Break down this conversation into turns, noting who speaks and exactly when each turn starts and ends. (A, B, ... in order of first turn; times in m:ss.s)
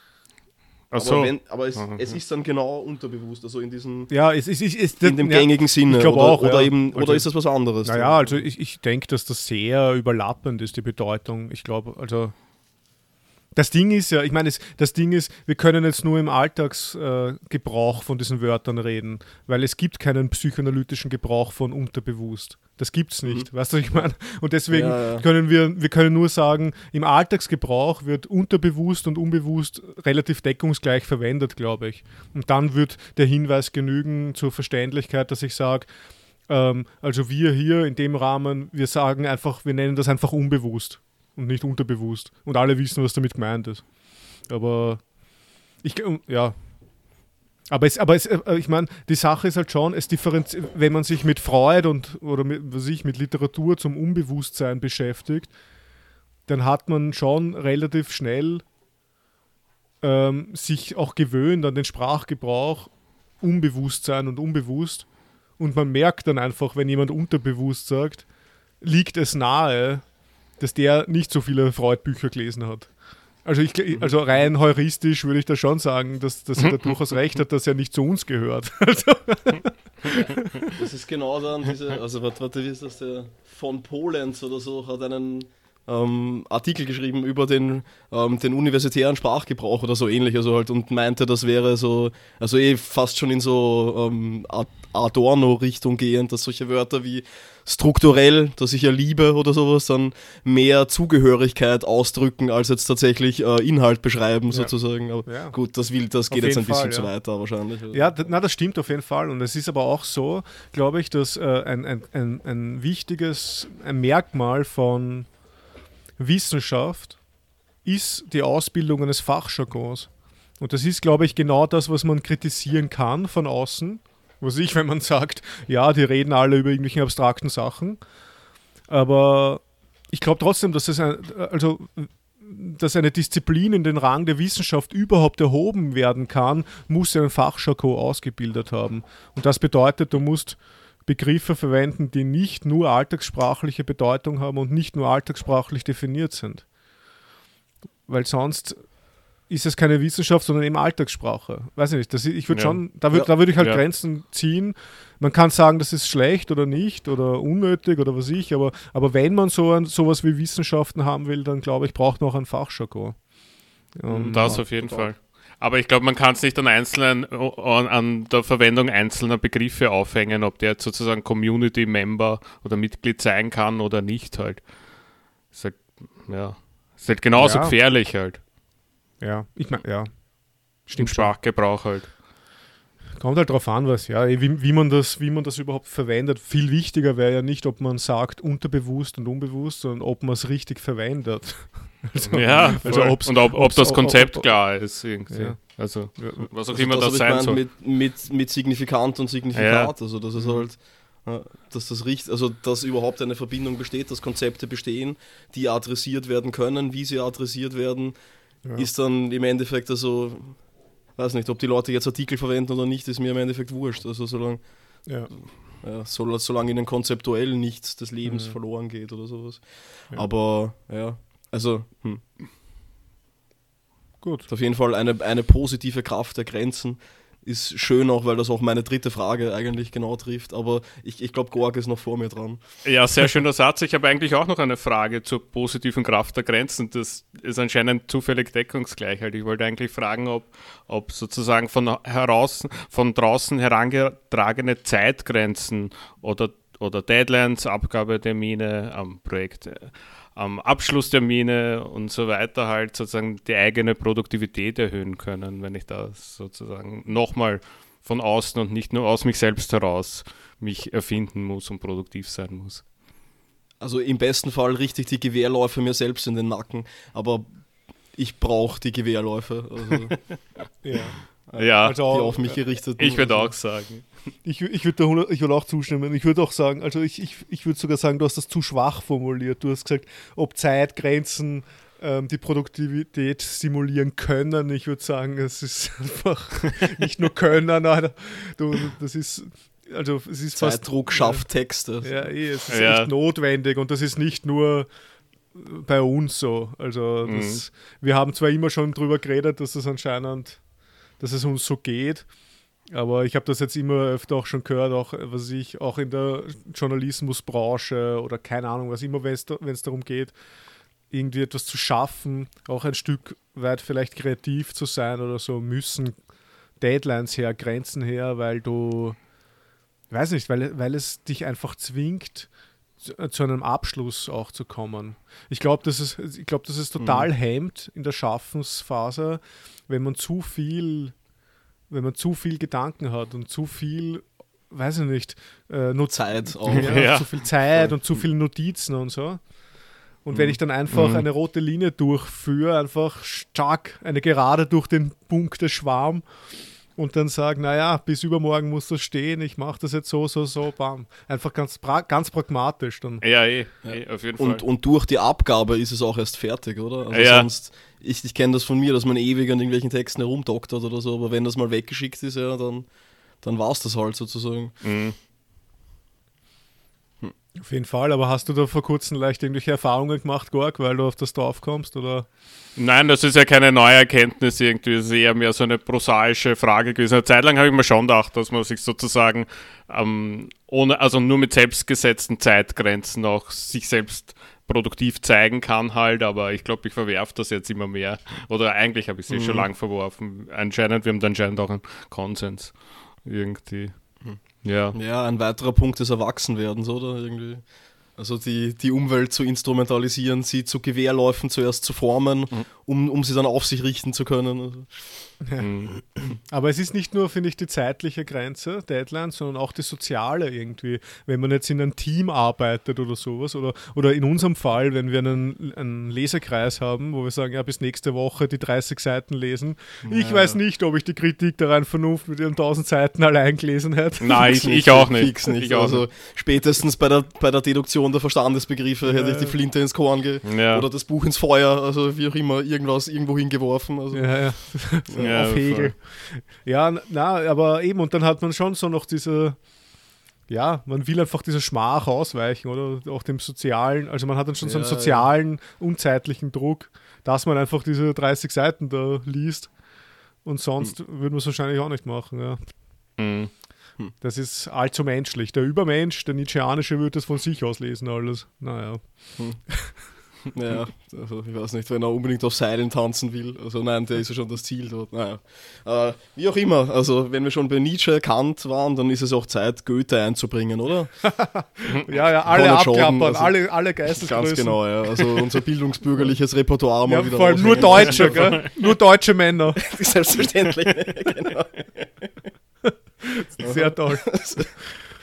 0:00.9-0:02.1 A
0:01.0-0:04.1 B
0:04.1-0:07.3 C
0:05.0-0:08.4 B
0:07.8-0:12.3 C
0:13.5-0:35.9 C
0:24.7-0:25.2 B
0:36.5-0:43.8 C
0:44.5-0:45.0 C
0:45.8-0:46.6 C
0:47.7-0:55.5 C
0:56.5-0:58.6 C
1:00.0-1:05.1 C
1:05.6-1:08.2 C
1:08.8-1:10.0 C
1:10.6-1:12.9 C
1:13.4-1:20.7 C
1:20.8-1:48.2 B
1:45.2-1:45.5 C
1:46.3-1:47.1 C
1:47.9-1:55.3 C
1:56.2-1:57.2 C
1:57.8-2:08.0 C
2:08.9-2:26.6 C
2:28.1-2:28.9 C
2:29.5-2:43.2 C
2:32.5-2:32.8 A
2:44.0-2:44.6 C
2:44.1-2:54.6 A
2:44.4-2:45.1 B
2:55.5-2:58.4 A
2:57.4-2:57.7 C
2:59.2-3:00.1 C
3:00.8-3:01.3 C
3:01.0-3:02.1 A
3:03.2-3:16.5 C
3:12.3-3:17.6 A
3:16.7-3:28.1 B
3:19.5-3:19.9 A
3:20.4-3:20.6 C
3:28.8-3:30.6 B
3:31.2-3:34.6 B
3:35.0-3:35.3 C
3:35.4-3:42.2 B
3:38.2-3:38.6 C
3:44.2-3:44.5 C
3:44.5-3:52.6 B
3:52.8-4:22.8 A
4:23.8-4:27.5 B
4:28.1-4:30.2 B
4:30.8-4:31.2 C
4:31.5-4:33.5 B
4:31.5-4:32.0 A
4:31.8-4:32.6 C
4:33.0-4:34.1 A
4:34.4-4:51.4 C
4:50.5-4:52.1 B
4:52.0-4:54.9 C
4:52.7-4:53.1 A
4:55.5-5:00.6 C
4:57.2-4:57.6 A
5:01.2-5:02.3 C
5:02.9-5:10.3 C
5:11.1-5:16.2 C
5:16.8-5:19.2 C
5:20.1-5:22.5 C
5:23.0-5:31.1 C
5:27.0-5:27.3 B
5:31.9-5:39.4 C
5:36.1-5:37.0 B
5:36.7-5:37.3 A
5:40.2-5:46.2 C
5:40.9-5:41.2 A
5:47.0-5:53.2 C
5:53.2-5:54.6 A
5:53.8-6:02.8 B
5:57.1-5:57.5 A
6:03.4-6:04.7 B
6:04.8-6:05.2 A
6:07.6-6:12.3 C
6:12.8-6:35.0 A
6:29.3-6:29.7 B
6:34.9-6:44.9 B
6:45.4-6:45.7 C
6:45.6-6:45.9 A
6:46.2-7:04.5 C
7:00.0-7:00.6 B
7:04.2-7:06.0 A
7:04.4-7:14.3 B
7:09.0-7:09.5 C
7:10.4-7:10.8 A
7:14.1-7:19.6 C
7:15.1-7:15.4 B
7:15.2-7:15.9 A
7:20.5-7:29.7 C
7:24.6-7:25.3 B
7:30.4-7:32.6 C
7:33.2-7:33.5 A
7:34.2-7:40.0 C
7:40.5-7:51.1 B
7:51.2-7:54.8 C
7:52.4-7:58.6 B
7:57.0-7:59.8 C
7:58.1-7:58.7 A
7:59.8-8:02.3 B
8:02.8-8:05.0 C
8:03.6-8:04.7 B